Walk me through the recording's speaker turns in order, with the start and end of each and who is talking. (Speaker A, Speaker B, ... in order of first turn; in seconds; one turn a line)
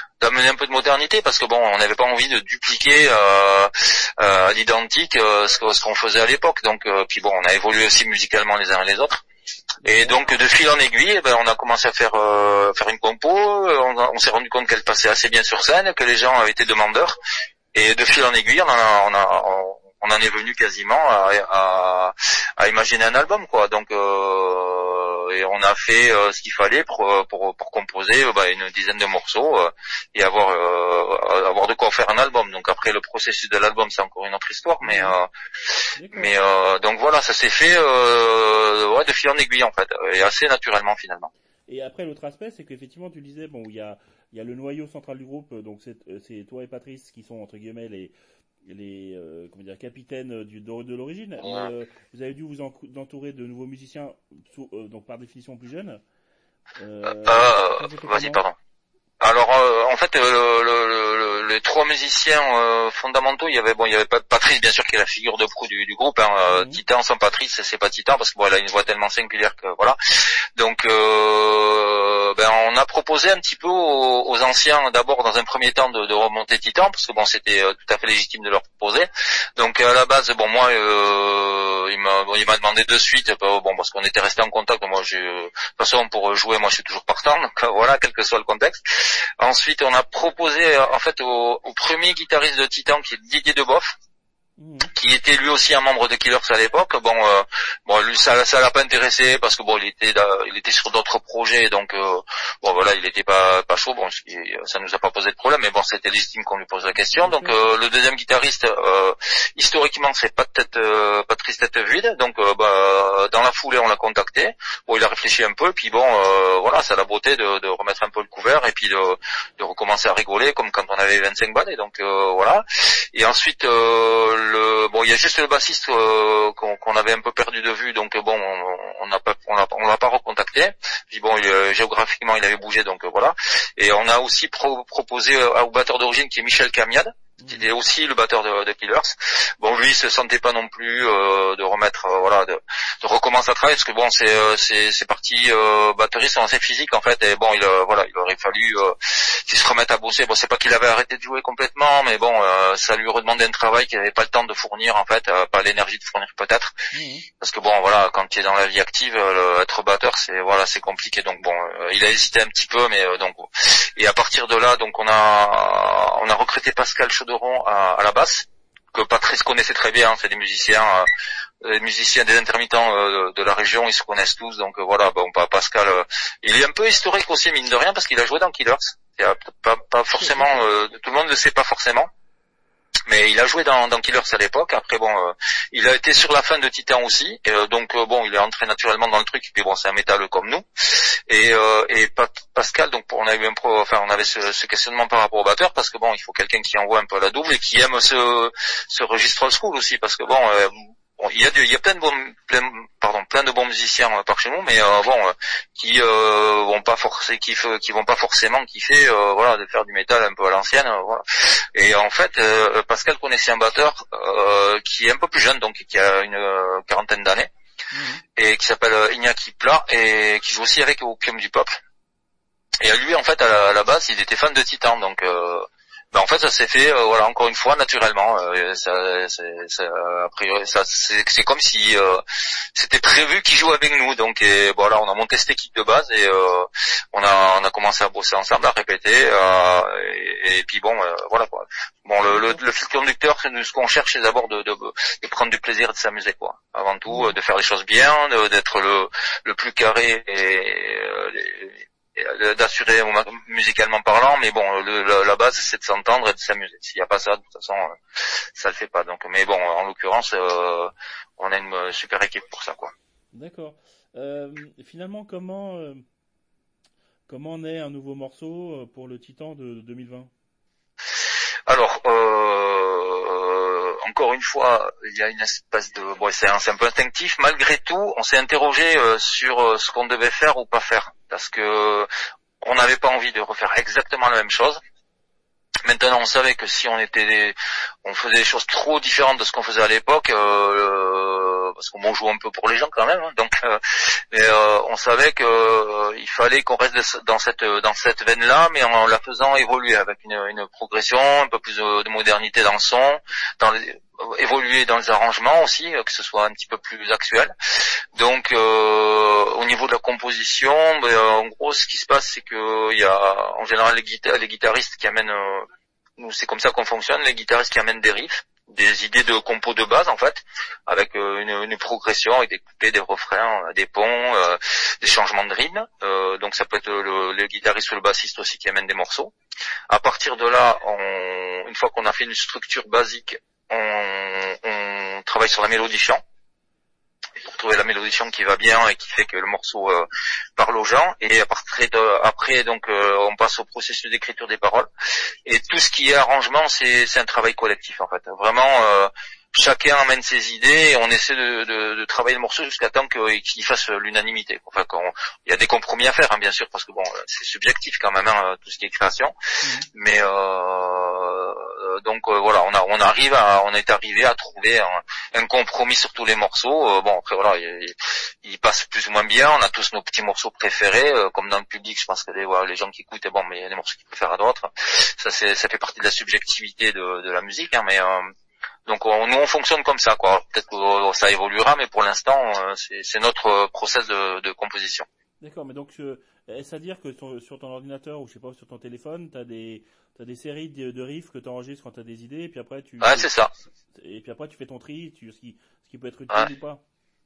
Speaker A: 0.2-9.2
Speaker B: 9.8-10.2
Speaker A: 9.8-17.2
Speaker A: 17.7-41.3
Speaker B: 34.8-35.2
Speaker B: 36.0-36.3
Speaker B: 41.7-48.1
Speaker B: 48.6-56.0
Speaker A: 51.4-51.7
Speaker B: 56.8-58.4
Speaker A: 57.2-58.5
Speaker A: 59.2-70.0
Speaker B: 66.5-66.8
Speaker A: 70.6-94.0
Speaker B: 94.6-94.9
Speaker A: 94.9-156.8
Speaker B: 107.2-107.6
Speaker B: 137.4-137.7
Speaker B: 156.9-157.3
Speaker A: 157.4-171.1
Speaker A: 171.6-182.1
Speaker B: 180.1-180.6
Speaker A: 183.1-217.5
Speaker B: 217.9-218.2
Speaker A: 218.4-221.8
Speaker A: 222.8-232.2
Speaker A: 232.7-262.9
Speaker B: 242.2-242.6
Speaker B: 247.1-247.4
Speaker B: 263.3-266.0
Speaker B: 267.3-270.3
Speaker A: 271.7-282.1
Speaker A: 282.6-284.8
Speaker A: 285.9-307.5
Speaker A: 308.2-315.7
Speaker A: 316.2-329.3
Speaker A: 329.9-336.2
Speaker A: 337.4-344.9
Speaker A: 345.4-359.3
Speaker B: 359.6-359.9
Speaker A: 359.9-378.2
Speaker A: 378.9-385.1
Speaker B: 385.4-393.3
Speaker A: 393.0-393.5
Speaker B: 393.9-396.8